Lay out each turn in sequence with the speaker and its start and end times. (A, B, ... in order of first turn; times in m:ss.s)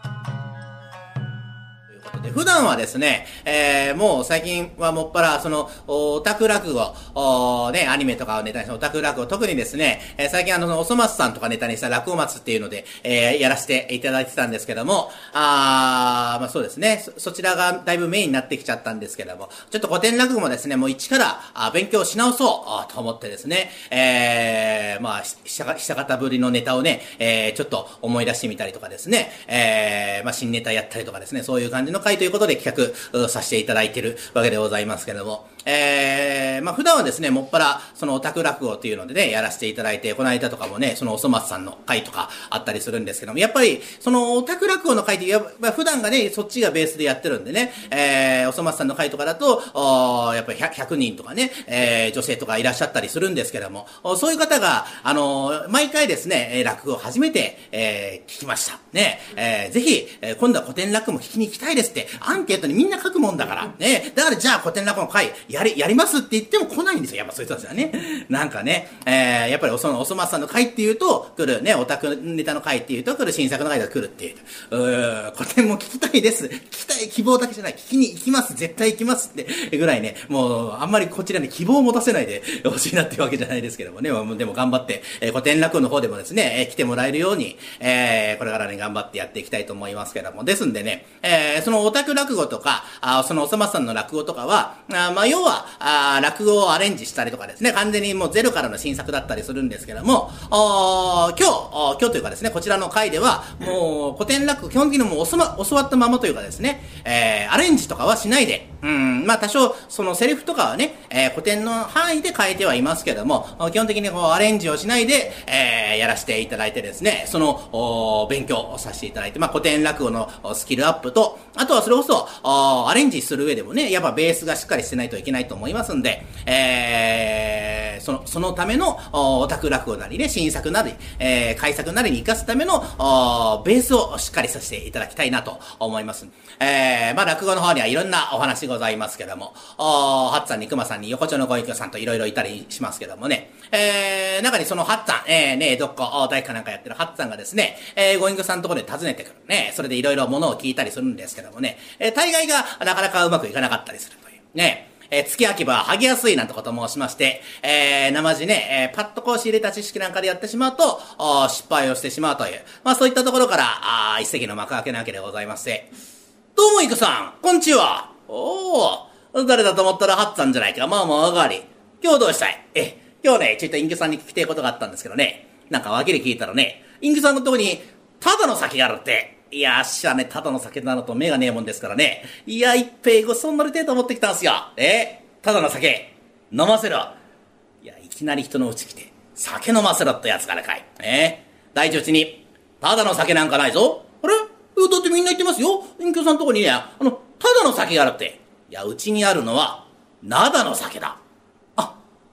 0:01.9-2:45.9 A
2:46.6-3:07.2 A
3:07.8-3:21.2 A